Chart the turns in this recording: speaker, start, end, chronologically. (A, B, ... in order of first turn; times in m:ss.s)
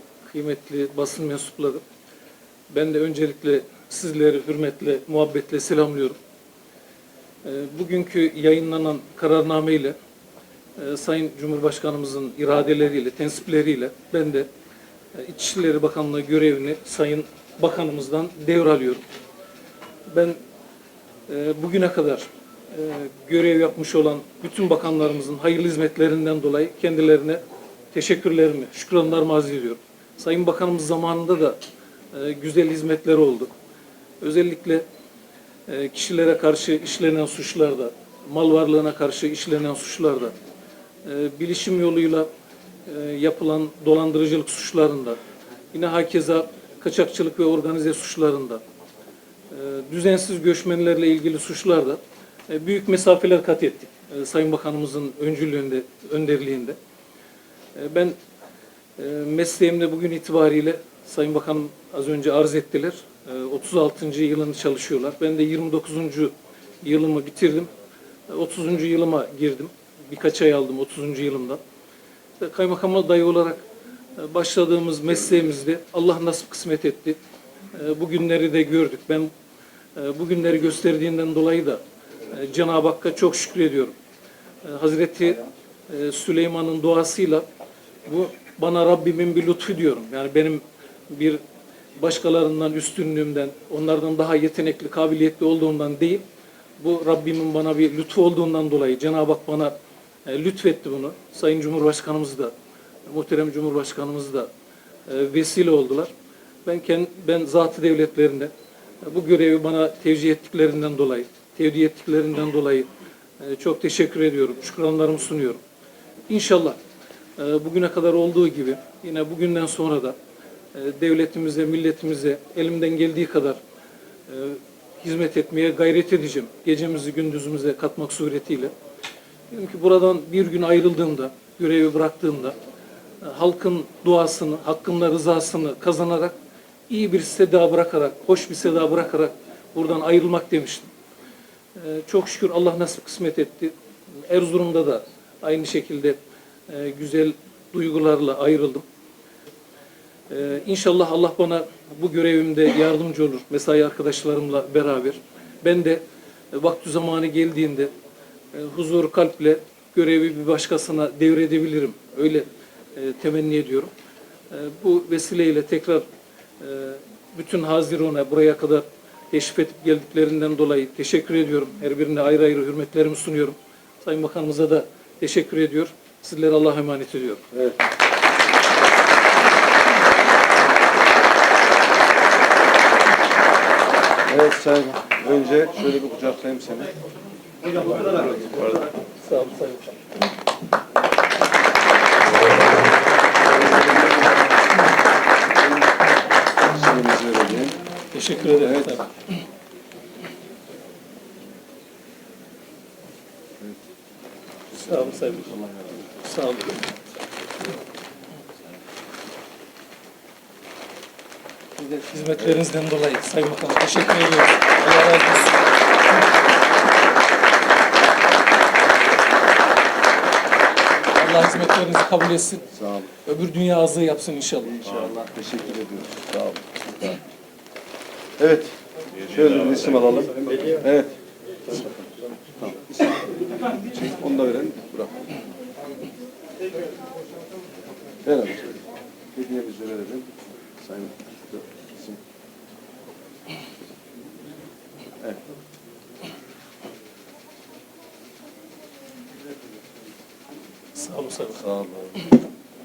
0:00.3-0:01.8 A
0:02.7-0:06.2 A
0:07.4-0:10.0 A
0:10.8-0:14.5 A
0:15.1-0:19.0 A
0:20.1-0:20.4 A
0:21.3-0:27.4 A
0:27.9-0:31.6 A
0:32.1-0:33.5 A
0:34.2-0:34.8 A
0:35.7-0:40.3 A
0:41.0-0:42.3 A
0:42.9-0:45.2 A
0:45.7-0:48.6 A
0:49.5-0:56.8 A
0:57.8-0:58.2 A
0:59.0-1:07.7 A
1:08.3-1:11.6 A
1:12.4-1:13.6 A
1:14.2-1:17.2 A
1:17.7-1:19.3 A
1:20.0-1:23.9 A
1:24.6-1:27.4 A
1:28.0-1:31.4 A
1:32.0-1:36.2 A
1:36.8-1:39.7 A
1:40.3-1:42.5 A
1:43.1-1:44.5 A
1:45.1-1:46.1 A
1:46.7-1:48.5 A
1:49.0-1:52.9 A
1:53.4-1:55.6 A
1:56.3-1:56.8 A
1:57.4-2:00.2 A
2:00.7-2:03.6 A
2:04.3-2:08.7 A
2:09.5-2:12.6 A
2:13.2-2:16.3 A
2:16.9-2:20.9 A
2:21.8-2:23.7 A
2:24.3-2:26.2 A
2:26.7-2:28.8 A
2:30.3-2:36.0 A
2:36.5-2:37.9 A
2:38.5-2:43.9 A
2:44.5-2:46.0 A
2:46.6-2:57.4 A
3:04.2-3:07.0 B
3:08.0-3:08.3 B
3:09.1-3:10.0 A
3:16.7-3:17.8 B
3:18.1-3:19.1 A
3:18.5-3:19.0 B
3:24.7-3:25.6 A
3:25.5-3:26.0 B
3:26.2-3:26.9 A
3:31.8-3:35.7 A
3:41.1-3:42.7 A
3:42.7-3:43.1 B
3:43.2-3:44.7 A
3:44.6-3:47.2 B
3:48.4-3:51.1 B
3:51.7-3:52.0 B
3:52.6-3:53.0 B
3:53.8-3:55.3 B
3:58.2-3:58.8 B
3:59.3-4:02.2 B
4:10.9-4:11.7 A
4:11.6-4:12.3 B